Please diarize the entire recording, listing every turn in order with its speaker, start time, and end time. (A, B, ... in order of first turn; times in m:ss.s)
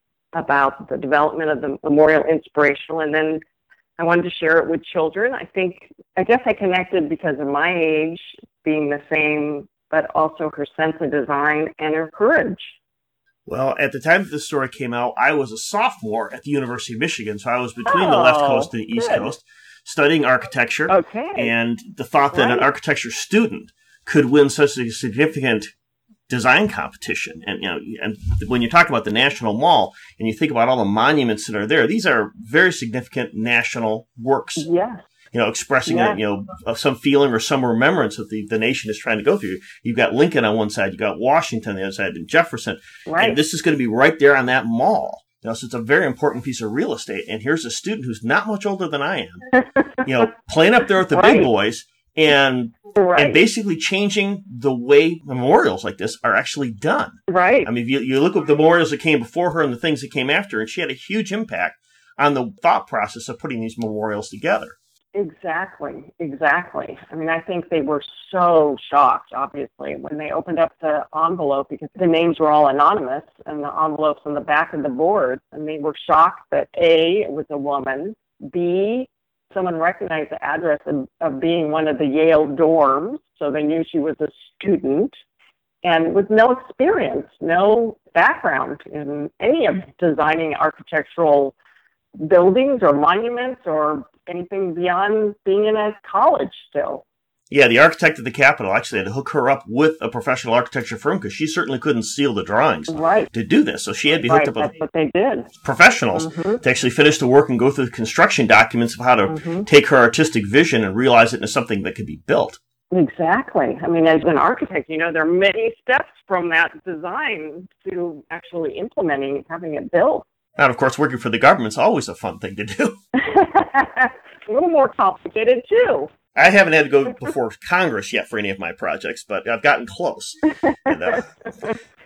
0:00.3-0:03.4 A
0:04.0-0:12.8 A
0:13.5-0:25.7 B
0:17.8-0:19.3 A
0:20.9-0:21.5 A
0:22.3-0:22.7 A
0:26.3-0:34.7 B
0:34.6-0:35.0 A
0:35.3-0:49.4 B
0:35.9-0:36.2 A
0:43.0-0:43.4 A
0:49.6-0:50.0 A
0:50.0-1:04.7 B
0:51.1-0:51.5 A
0:52.9-0:53.4 A
0:57.3-0:57.7 A
1:05.2-1:25.1 A
1:25.8-1:31.5 A
1:32.2-1:37.0 A
1:37.5-1:44.7 B
1:42.9-1:43.3 A
1:44.2-1:45.5 A
1:45.6-1:52.6 B
1:46.1-1:46.6 A
1:49.3-1:49.7 A
1:52.9-2:00.2 A
2:00.6-2:03.0 B
2:03.1-2:06.1 A
2:06.3-2:11.5 B
2:10.6-2:11.2 A